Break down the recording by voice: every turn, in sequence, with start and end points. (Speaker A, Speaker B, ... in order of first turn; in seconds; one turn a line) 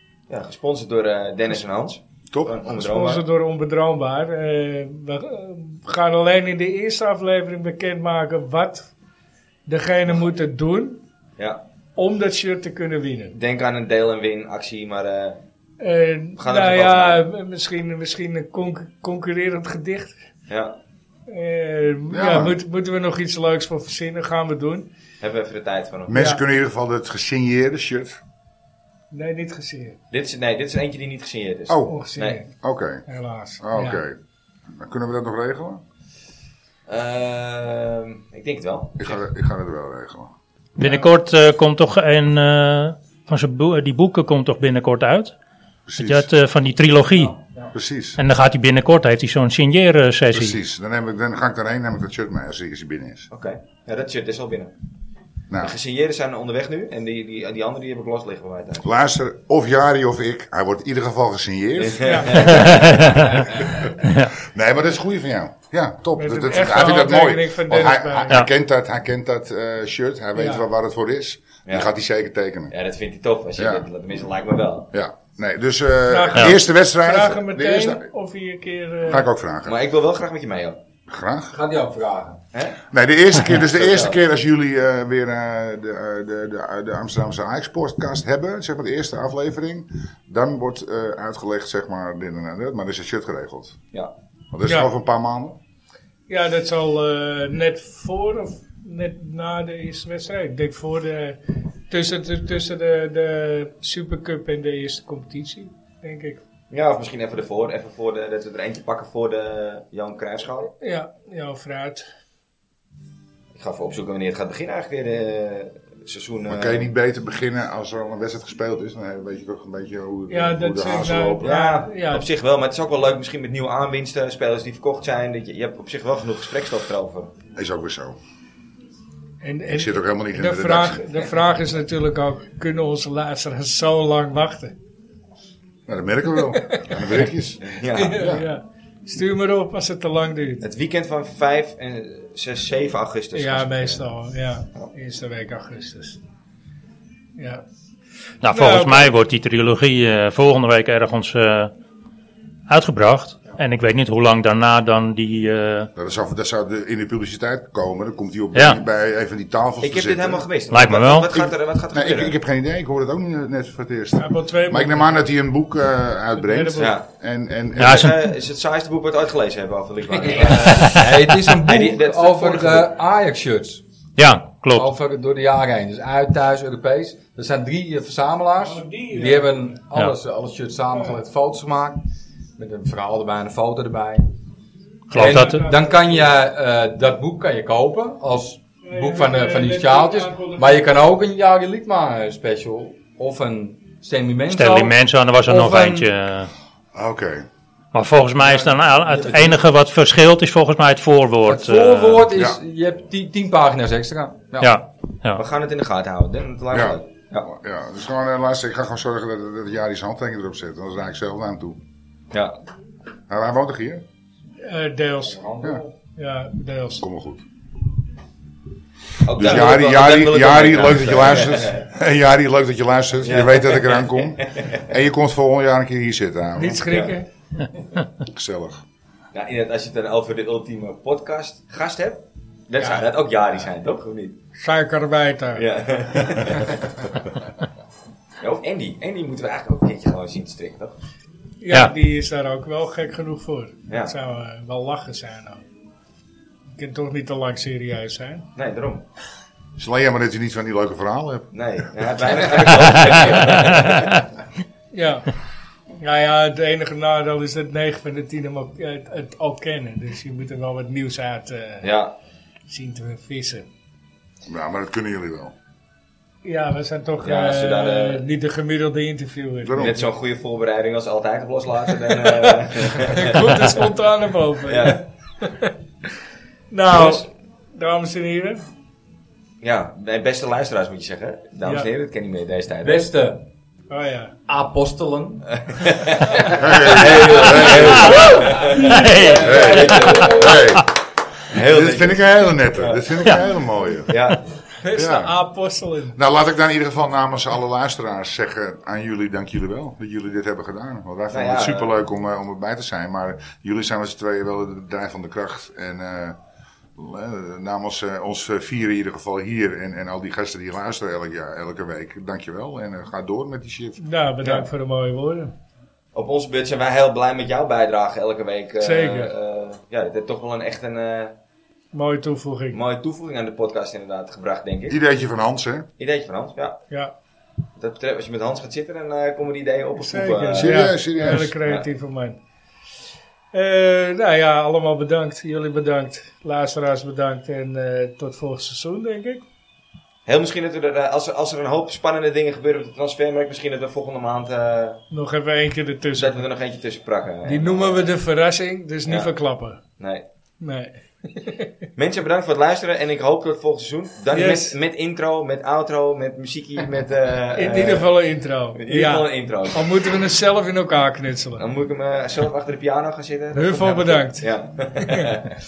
Speaker A: 0.3-3.2
Speaker B: 2.3-2.6
Speaker C: 2.7-8.9
Speaker C: 9.7-11.0
Speaker C: 12.0-13.3
Speaker A: 13.3-15.4
Speaker C: 15.8-20.1
Speaker A: 16.4-17.2
Speaker A: 20.5-20.8
Speaker C: 21.3-24.9
Speaker B: 22.1-22.6
Speaker A: 25.2-26.2
Speaker B: 26.1-28.2
Speaker C: 26.1-26.4
Speaker C: 29.1-30.0
Speaker A: 30.1-32.4
Speaker B: 31.7-32.0
Speaker C: 31.9-32.5
Speaker B: 32.6-33.0
Speaker C: 33.1-34.0
Speaker B: 33.6-34.2
Speaker B: 34.7-35.8
Speaker A: 36.9-39.1
Speaker B: 39.0-40.3
Speaker D: 40.8-45.3
Speaker B: 45.9-46.3
Speaker D: 46.0-47.4
Speaker B: 47.7-48.2
Speaker D: 48.2-50.6
Speaker B: 50.3-53.3
Speaker A: 53.3-54.7
Speaker B: 55.5-55.8
Speaker A: 55.6-58.9
Speaker B: 58.8-62.5
Speaker A: 61.8-63.2
Speaker C: 62.0-62.5
Speaker D: 62.4-64.3
Speaker B: 63.5-63.9
Speaker B: 64.4-72.7
Speaker C: 66.2-68.5
Speaker C: 70.4-70.7
Speaker A: 71.7-71.9
Speaker A: 72.7-74.9
Speaker B: 73.6-73.8
Speaker B: 74.9-78.1
Speaker C: 76.1-79.3
Speaker B: 79.1-79.8
Speaker A: 79.7-80.8
Speaker B: 81.1-81.5
Speaker E: 81.5-82.4
Speaker A: 82.5-82.8
Speaker B: 82.9-93.8
Speaker A: 83.5-84.2
Speaker B: 94.5-95.6
Speaker C: 96.3-101.4
Speaker C: 101.9-106.4
Speaker A: 106.7-110.7
Speaker C: 110.8-112.1
Speaker A: 113.5-116.9
Speaker B: 116.5-121.5
Speaker C: 120.3-122.3
Speaker A: 121.4-127.3
Speaker B: 127.5-128.2
Speaker C: 129.4-134.7
Speaker B: 129.7-131.1
Speaker B: 135.9-138.5
Speaker C: 136.5-137.1
Speaker A: 137.6-138.4
Speaker C: 137.9-140.7
Speaker A: 140.6-144.1
Speaker C: 143.3-146.2
Speaker C: 147.4-147.6
Speaker D: 148.4-151.7
Speaker C: 148.5-149.1
Speaker D: 152.7-155.9
Speaker B: 156.0-160.4
Speaker D: 158.5-158.8
Speaker A: 159.8-162.3
Speaker D: 160.7-161.3
Speaker B: 161.3-168.1
Speaker C: 164.2-165.3
Speaker C: 166.3-166.9
Speaker A: 166.8-167.1
Speaker D: 167.8-168.2
Speaker A: 167.8-172.9
Speaker E: 170.1-173.8
Speaker D: 170.7-171.2
Speaker D: 174.2-174.9
Speaker E: 174.8-182.0
Speaker C: 178.6-179.8
Speaker C: 180.9-181.2
Speaker E: 182.6-184.3
Speaker D: 185.1-185.7
Speaker E: 185.1-196.1
Speaker C: 185.2-186.4
Speaker C: 188.8-191.0
Speaker D: 194.5-196.5
Speaker B: 196.9-197.5
Speaker D: 197.9-202.3
Speaker E: 201.5-204.8
Speaker B: 202.3-202.6
Speaker D: 204.6-205.4
Speaker A: 205.4-207.5
Speaker B: 206.7-211.8
Speaker A: 212.3-212.6
Speaker B: 213.3-214.0
Speaker C: 214.6-217.1
Speaker E: 215.2-215.9
Speaker B: 217.0-217.4
Speaker A: 219.2-221.9
Speaker B: 219.3-227.0
Speaker A: 223.2-224.8
Speaker C: 226.6-227.3
Speaker A: 226.9-227.2
Speaker B: 228.2-228.8
Speaker A: 229.3-234.4
Speaker C: 232.8-233.1
Speaker C: 234.6-235.6
Speaker A: 235.6-237.2
Speaker A: 238.4-240.9
Speaker C: 241.6-245.6
Speaker A: 243.9-244.1
Speaker C: 246.8-248.5
Speaker A: 248.6-249.0
Speaker B: 249.8-251.5
Speaker A: 251.5-254.1
Speaker D: 252.9-254.2
Speaker C: 254.9-255.3
Speaker C: 256.0-261.9
Speaker A: 261.8-262.1
Speaker C: 262.7-263.7
Speaker B: 264.5-265.5
Speaker C: 266.4-270.1
Speaker A: 267.2-268.2
Speaker B: 269.6-270.1
Speaker A: 269.8-273.8
Speaker C: 272.1-275.7
Speaker A: 274.6-275.0
Speaker C: 276.7-278.6
Speaker A: 276.9-277.3
Speaker A: 279.6-283.1
Speaker E: 282.8-283.4
Speaker C: 283.9-284.4
Speaker E: 284.5-285.5
Speaker A: 285.5-290.9
Speaker B: 286.5-288.2
Speaker E: 287.4-290.5
Speaker D: 288.0-290.3
Speaker B: 289.4-290.9
Speaker A: 291.5-293.2
Speaker B: 291.5-294.2
Speaker A: 294.1-294.4
Speaker C: 294.8-296.2
Speaker B: 294.9-295.4
Speaker B: 296.1-306.4
Speaker A: 301.3-301.9
Speaker B: 307.0-314.0
Speaker C: 314.0-315.5
Speaker A: 314.4-314.7
Speaker A: 316.1-321.4
Speaker C: 318.8-319.3
Speaker C: 321.9-322.8
Speaker A: 322.7-325.0
Speaker B: 324.9-325.9
Speaker A: 326.0-326.8
Speaker A: 327.8-331.9
Speaker C: 330.0-332.4
Speaker B: 330.6-331.6
Speaker C: 333.5-339.4
Speaker A: 340.3-345.0
Speaker C: 345.1-346.4
Speaker A: 346.1-348.1
Speaker C: 347.5-349.8
Speaker A: 349.1-349.3
Speaker A: 350.0-350.2
Speaker C: 350.6-351.7
Speaker A: 352.0-358.2
Speaker C: 354.3-354.8
Speaker C: 357.5-361.6
Speaker A: 358.8-360.1
Speaker A: 361.6-365.5
Speaker C: 363.5-364.5
Speaker C: 365.0-365.4